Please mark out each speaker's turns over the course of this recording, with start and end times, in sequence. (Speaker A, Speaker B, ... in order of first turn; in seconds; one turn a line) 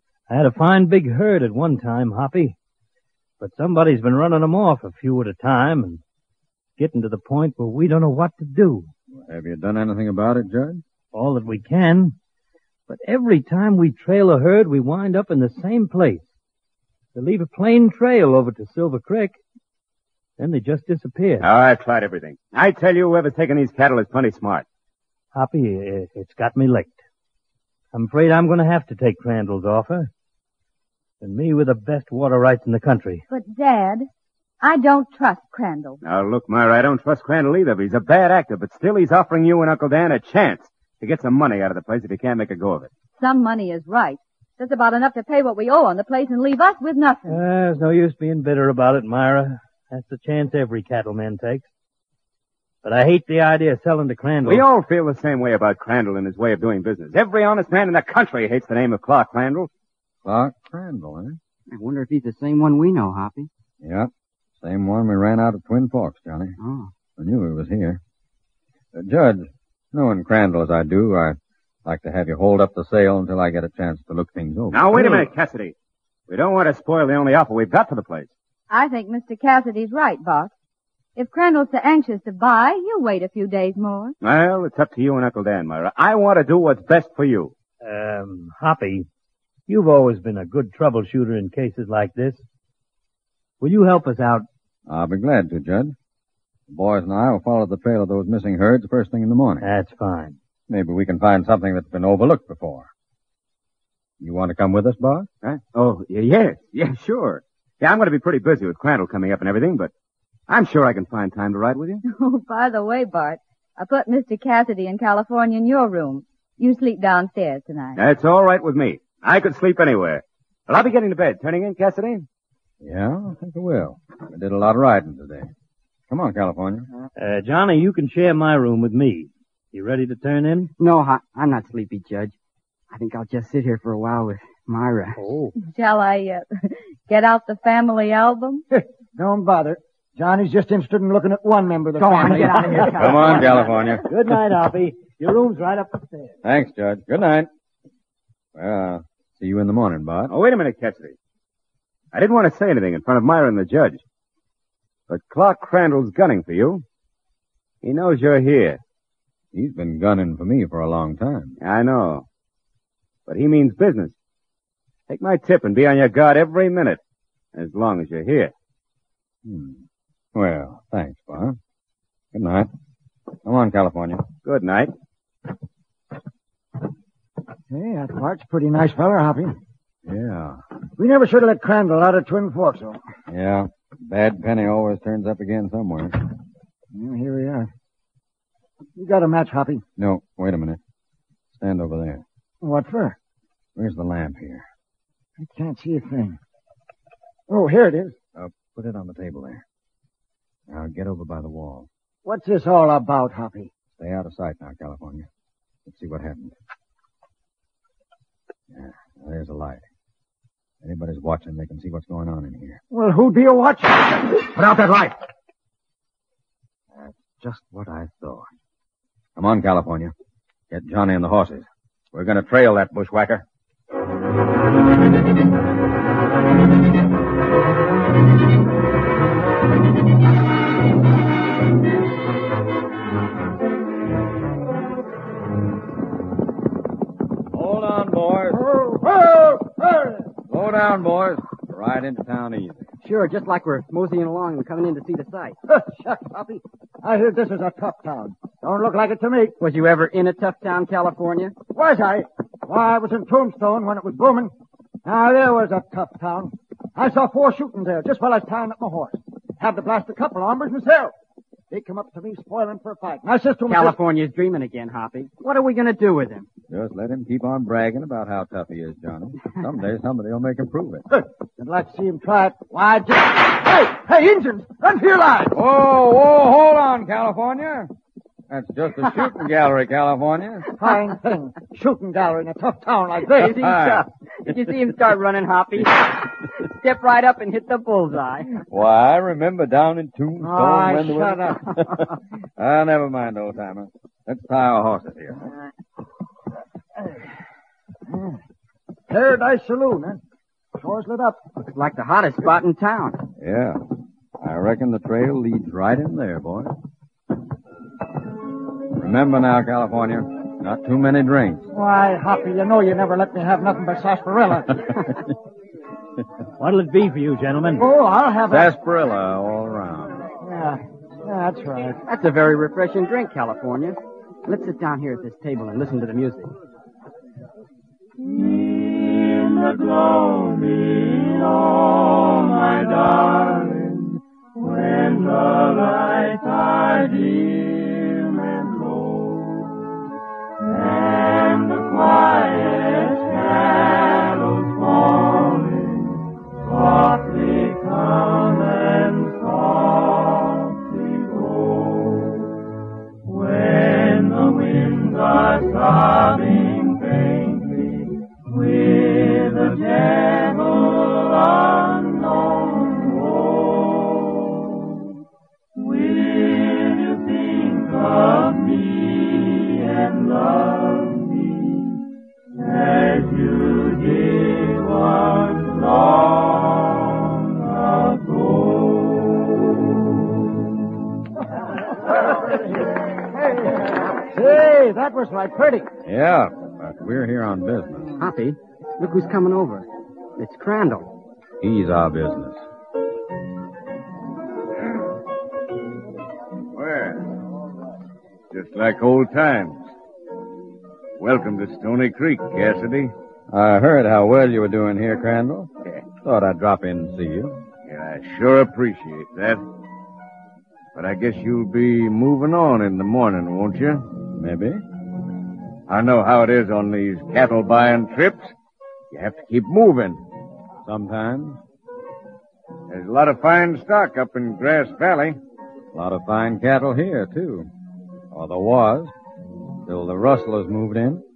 Speaker A: 0.3-2.5
Speaker A: 3.4-6.0
Speaker A: 6.8-8.9
Speaker B: 9.1-10.8
Speaker A: 11.1-12.2
Speaker A: 12.9-16.3
Speaker A: 17.1-19.4
Speaker A: 20.4-21.5
Speaker C: 21.4-24.6
Speaker A: 25.3-27.0
Speaker A: 27.9-30.1
Speaker A: 31.2-33.2
Speaker D: 33.3-34.1
Speaker D: 34.6-36.0
Speaker C: 36.0-42.9
Speaker D: 43.2-47.4
Speaker A: 47.3-51.7
Speaker A: 52.8-54.7
Speaker C: 54.5-59.7
Speaker B: 60.2-61.4
Speaker E: 61.7-63.5
Speaker B: 63.8-66.6
Speaker E: 66.6-66.9
Speaker B: 67.2-68.0
Speaker B: 68.9-75.3
Speaker C: 74.7-75.7
Speaker C: 76.3-78.3
Speaker D: 78.7-80.5
Speaker D: 81.2-84.2
Speaker C: 84.2-87.5
Speaker A: 87.8-89.1
Speaker A: 89.7-92.4
Speaker A: 93.6-94.5
Speaker B: 94.9-96.0
Speaker B: 96.7-99.7
Speaker A: 99.6-100.4
Speaker B: 100.7-102.9
Speaker B: 104.2-105.3
Speaker C: 105.4-109.9
Speaker C: 110.5-112.0
Speaker D: 112.0-118.0
Speaker C: 118.0-122.3
Speaker B: 122.8-125.5
Speaker B: 126.1-126.9
Speaker A: 127.2-130.7
Speaker E: 130.8-132.3
Speaker E: 132.9-135.3
Speaker A: 135.2-135.6
Speaker D: 135.6-138.6
Speaker F: 138.7-143.0
Speaker E: 142.0-143.9
Speaker B: 142.9-144.1
Speaker A: 144.1-146.3
Speaker B: 146.4-147.5
Speaker B: 148.6-150.3
Speaker C: 150.3-151.2
Speaker C: 152.1-154.0
Speaker C: 155.1-156.8
Speaker C: 157.8-158.8
Speaker B: 159.5-161.6
Speaker C: 161.6-162.2
Speaker C: 163.3-164.2
Speaker C: 165.1-167.0
Speaker C: 167.5-168.5
Speaker B: 169.4-169.8
Speaker B: 170.3-171.6
Speaker B: 172.3-172.7
Speaker B: 173.4-174.3
Speaker C: 174.4-174.9
Speaker F: 177.7-179.6
Speaker B: 180.1-180.6
Speaker F: 181.0-183.0
Speaker B: 183.3-186.2
Speaker F: 186.9-187.7
Speaker F: 189.0-189.8
Speaker B: 190.0-190.8
Speaker B: 191.5-192.2
Speaker F: 192.6-193.2
Speaker B: 193.8-194.7
Speaker F: 195.4-196.4
Speaker F: 197.5-198.1
Speaker B: 198.4-199.6
Speaker B: 200.7-201.9
Speaker F: 202.2-203.7
Speaker B: 204.0-205.3
Speaker B: 205.9-206.6
Speaker B: 208.7-209.8
Speaker B: 210.8-212.8
Speaker F: 212.9-215.1
Speaker B: 216.9-218.5
Speaker B: 219.4-220.1
Speaker B: 220.7-223.4
Speaker B: 237.5-238.6
Speaker F: 238.5-240.3
Speaker B: 240.5-242.9
Speaker E: 243.0-245.6
Speaker F: 245.7-249.6
Speaker E: 249.6-251.6
Speaker F: 251.7-254.5
Speaker F: 255.1-261.1
Speaker F: 261.7-264.0
Speaker E: 263.7-266.5
Speaker B: 266.7-271.1
Speaker F: 271.1-275.6
Speaker B: 275.5-277.9
Speaker B: 278.5-280.6
Speaker F: 280.8-283.6
Speaker E: 283.3-288.6
Speaker B: 283.5-284.9
Speaker B: 288.7-295.5
Speaker F: 290.4-291.6
Speaker F: 298.1-298.4
Speaker F: 299.1-300.2
Speaker F: 300.8-301.4
Speaker E: 301.6-303.2
Speaker B: 303.4-303.8
Speaker B: 304.4-306.8
Speaker B: 308.9-311.7
Speaker F: 311.7-314.9
Speaker A: 316.6-317.9
Speaker F: 317.8-318.7
Speaker B: 318.5-320.2
Speaker F: 320.4-322.0
Speaker E: 322.1-326.5
Speaker G: 328.2-339.7
Speaker G: 340.7-352.4
Speaker G: 353.2-364.4
Speaker G: 365.8-371.9
Speaker G: 372.6-379.5
Speaker F: 382.1-385.9
Speaker B: 386.1-388.1
Speaker E: 388.2-391.1
Speaker B: 391.6-392.6
Speaker H: 396.8-397.3
Speaker H: 398.5-399.9
Speaker H: 401.2-403.1
Speaker B: 403.5-407.6
Speaker H: 407.9-409.6
Speaker H: 410.9-414.0
Speaker B: 414.3-414.8
Speaker H: 415.9-418.5
Speaker H: 419.1-420.2
Speaker B: 420.9-421.6
Speaker H: 422.9-425.4
Speaker B: 425.9-427.7
Speaker B: 428.3-429.1
Speaker B: 429.9-431.2